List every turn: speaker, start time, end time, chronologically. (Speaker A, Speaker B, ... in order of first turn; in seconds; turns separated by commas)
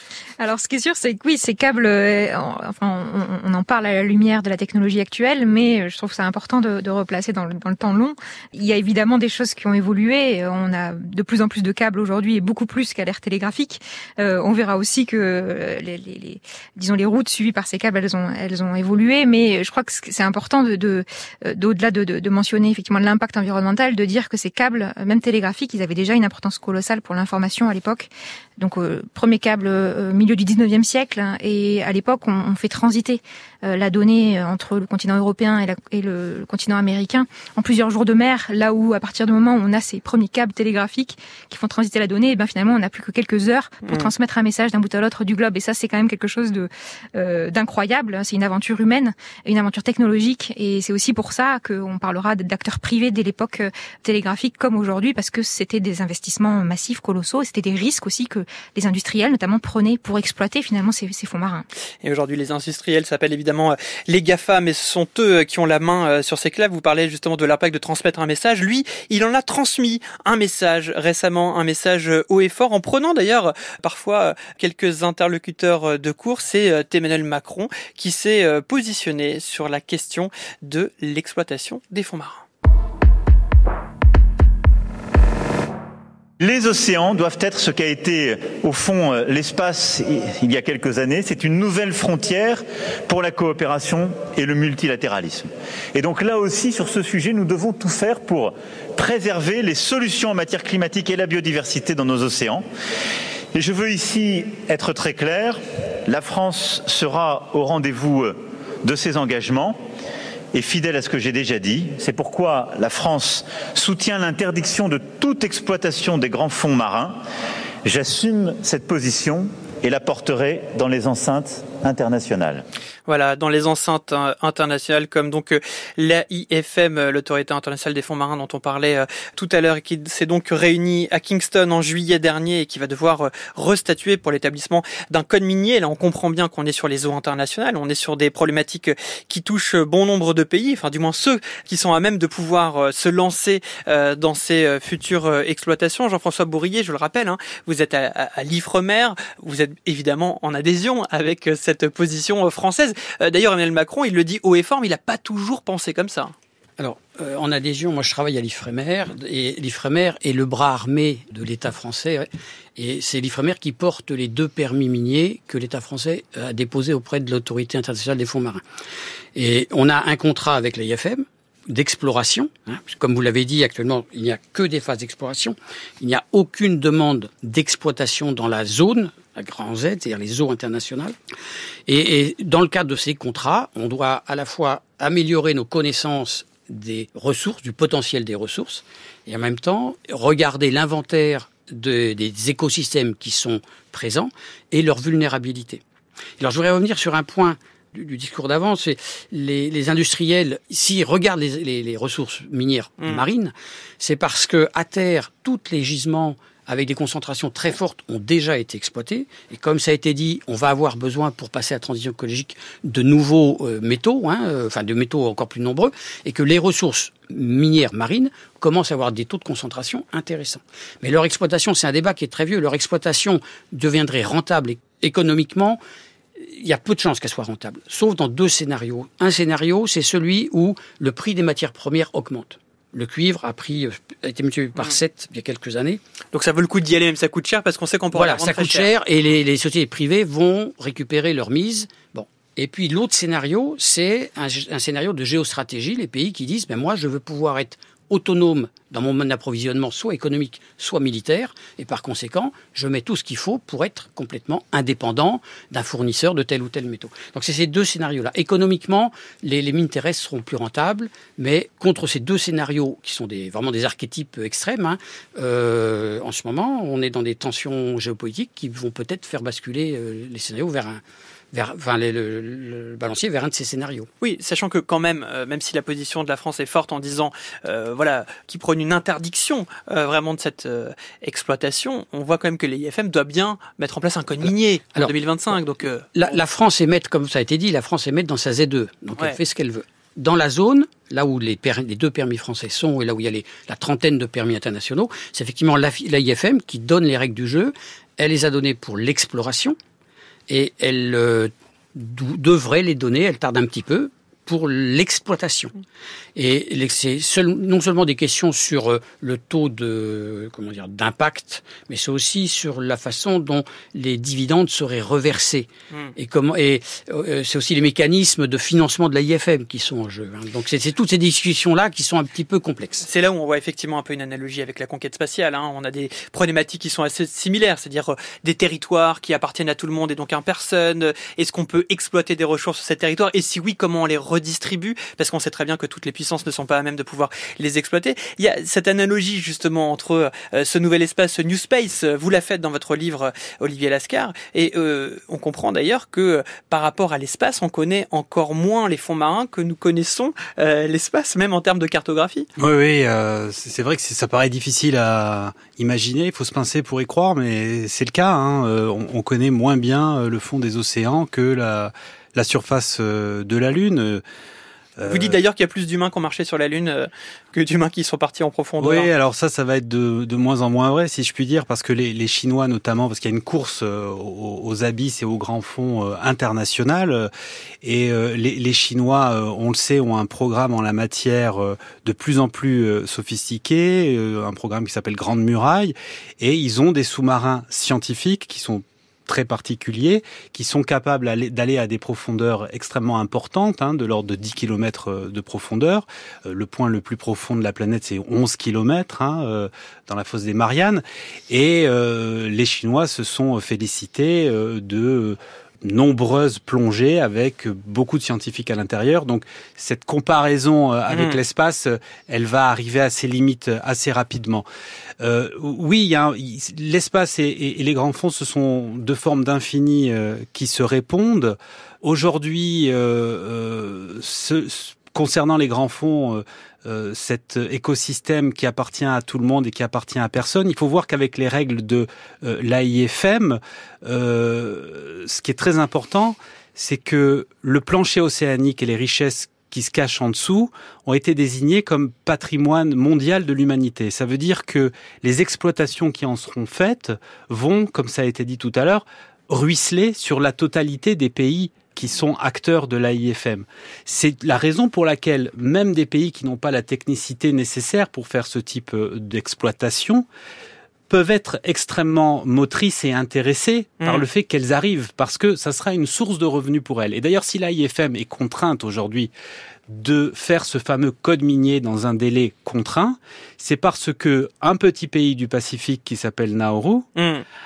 Speaker A: 0.4-61.7, Speaker B: 62.0-82.4, Speaker C: 86.4-102.7, Speaker C: 103.5-109.8, Speaker C: 110.5-117.2, Speaker C: 117.8-122.7, Speaker B: 123.1-156.3, Speaker D: 156.8-168.6, Speaker D: 169.3-181.2, Speaker D: 181.9-195.8, Speaker D: 196.4-225.8, Speaker D: 226.4-236.0, Speaker B: 236.3-238.9, Speaker D: 238.1-271.0, Speaker D: 271.5-274.1, Speaker B: 274.2-286.4, Speaker D: 284.9-285.6, Speaker D: 286.1-299.8, Speaker D: 300.5-305.7, Speaker D: 306.4-323.1, Speaker B: 323.1-352.5, Speaker E: 352.6-364.2, Speaker E: 365.0-365.4, Speaker B: 365.1-369.1, Speaker E: 368.8-377.3, Speaker E: 377.8-414.7, Speaker B: 411.1-411.4, Speaker E: 415.2-460.3, Speaker E: 461.1-469.3, Speaker B: 464.0-464.3, Speaker E: 469.9-477.1, Speaker B: 477.2-477.4